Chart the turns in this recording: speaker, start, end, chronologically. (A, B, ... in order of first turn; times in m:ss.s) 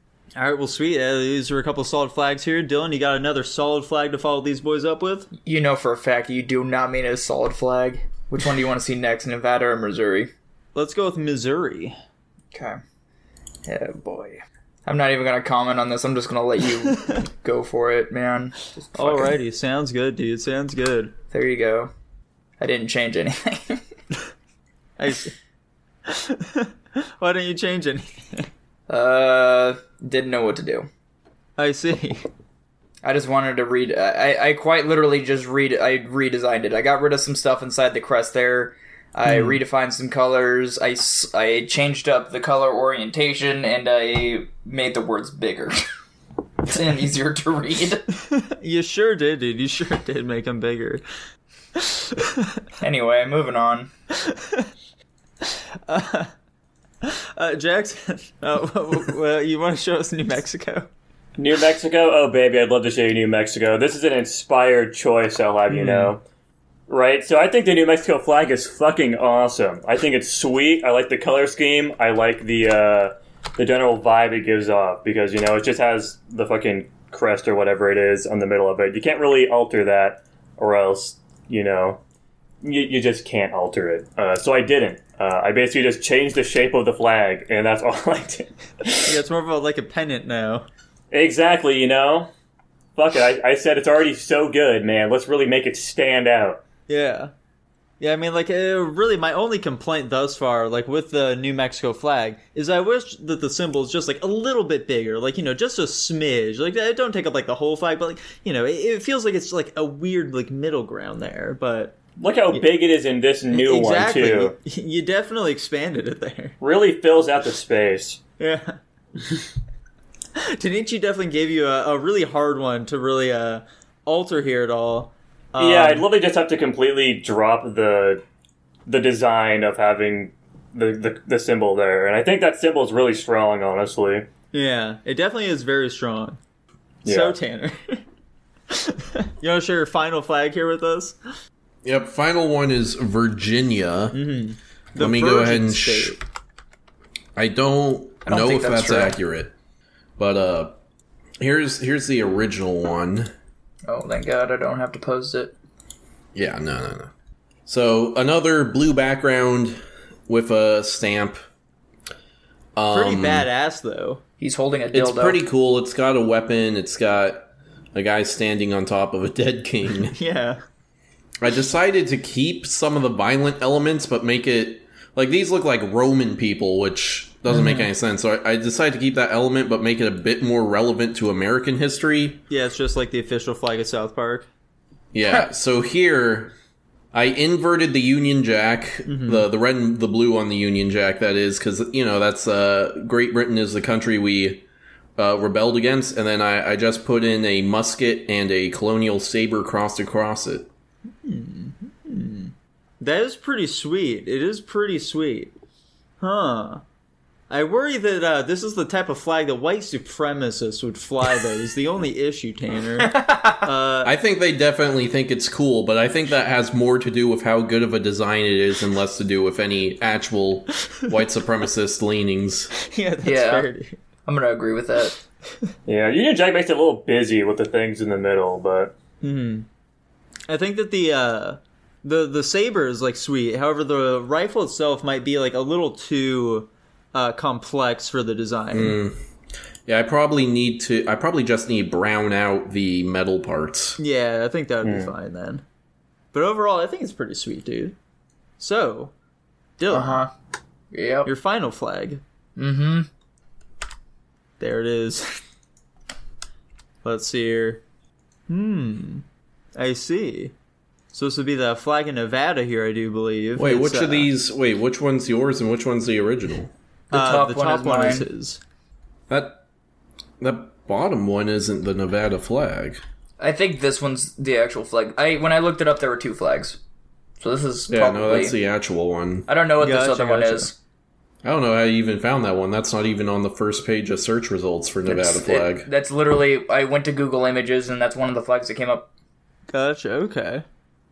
0:00.4-0:05.3 A
0:05.4-0:10.3 B
0:10.7-0:12.0 A
0:12.5-0:12.8 B
0:13.6-0:19.4 B
0:18.9-0:21.1 A
0:21.3-0:21.9 B
0:22.6-0:23.8 B
0:25.0-0:25.3 A
0:26.0-0:28.5 A
0:28.9-0:30.9 B
0:31.6-0:32.2 A
0:33.0-0:45.8 B
0:39.2-0:39.6 A
0:46.6-0:48.0 B
0:48.2-0:51.0 A
0:51.8-0:52.6 A
0:52.8-0:53.9 B
0:54.2-0:54.7 A
0:55.4-0:56.3 A
0:57.0-1:00.9 A
1:01.4-1:06.2 C
1:05.7-1:06.1 A
1:06.9-1:22.0 C
1:22.6-1:29.1 C
1:29.1-1:30.6 A
1:31.1-1:32.3 C
1:32.9-1:36.6 C
1:36.9-1:37.3 A
1:38.0-1:52.0 A
1:52.2-1:54.5 C
1:53.5-1:56.6 A
1:56.6-1:58.2 C
1:58.4-1:58.8 A
2:00.4-2:06.0 A
2:05.6-2:08.2 C
2:08.8-2:14.2 C
2:14.5-2:16.4 A
2:17.0-2:17.4 C
2:17.0-2:18.0 A
2:18.7-2:21.2 A
2:21.8-2:24.2 D
2:24.1-2:26.2 A
2:25.0-2:26.2 D
2:27.4-2:29.5 D
2:28.2-2:29.2 B
2:30.2-2:30.7 D
2:31.4-2:33.3 D
2:33.9-2:35.5 B
2:36.3-2:37.1 D
2:37.6-2:41.4 D
2:42.8-2:43.5 D
2:42.9-2:44.2 A
2:44.4-2:45.4 B
2:44.9-2:50.2 D
2:50.1-2:50.6 A
2:51.4-3:02.4 D
2:57.5-2:57.9 A
3:02.5-3:04.5 A
3:05.1-3:06.5 D
3:07.1-3:14.6 D
3:09.1-3:09.4 A
3:15.2-3:20.7 D
3:21.2-3:25.5 A
3:26.2-3:26.8 A
3:27.5-3:34.1 A
3:33.0-3:33.6 B
3:34.0-3:42.7 D
3:42.9-3:44.0 A
3:43.2-3:43.7 B
3:44.3-3:45.2 B
3:45.8-3:48.9 C
3:49.2-3:49.6 A
3:50.5-3:59.0 A
3:58.7-3:59.2 D
3:59.8-4:04.0 D
4:04.0-4:05.6 A
4:04.8-4:05.1 C
4:06.3-4:07.9 A
4:08.6-4:09.1 A
4:09.8-4:10.2 A
4:09.9-4:10.3 B
4:10.9-4:11.3 B
4:11.2-4:12.2 A
4:12.6-4:13.1 B
4:14.6-4:15.4 A
4:17.0-4:17.8 A
4:18.5-4:19.2 A
4:19.8-4:20.5 A
4:21.1-4:24.3 A
4:23.6-4:26.7 D
4:27.1-4:28.3 B
4:27.1-4:28.6 A
4:29.3-4:29.6 D
4:30.4-4:33.0 D
4:33.4-4:36.8 B
4:37.4-4:38.5 B
4:37.9-4:39.5 D
4:39.5-4:40.8 B
4:39.8-4:40.7 A
4:41.4-4:45.9 D
4:45.0-4:49.1 B
4:49.7-4:50.6 A